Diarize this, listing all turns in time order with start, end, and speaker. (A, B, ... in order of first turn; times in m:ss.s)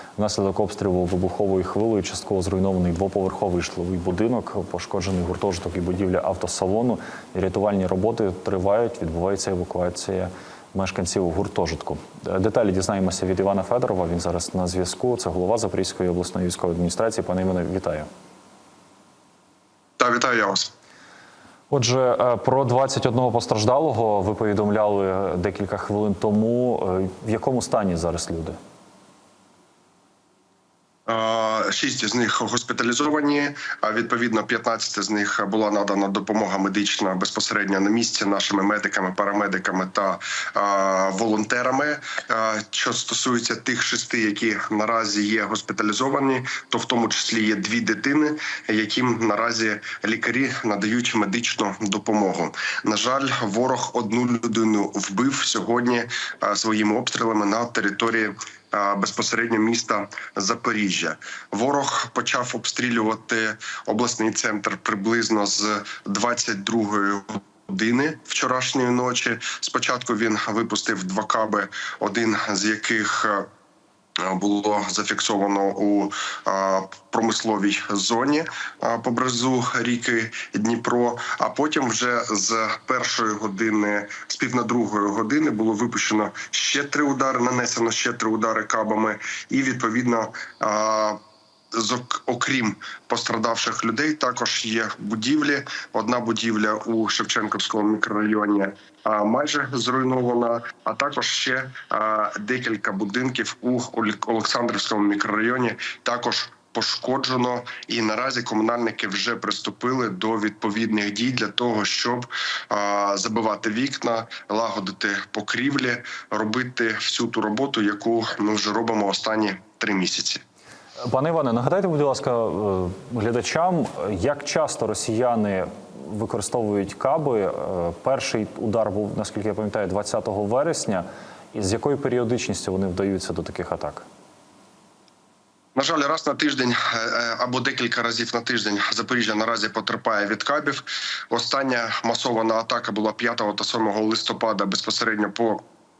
0:00.2-0:18.1 A
0:20.0-0:20.7 B
0:21.7-0:28.6 A
0:31.1-1:13.5 B
1:14.2-1:31.2 B
1:31.7-2:00.4 B
2:01.0-2:14.0 A
2:15.7-2:25.6 B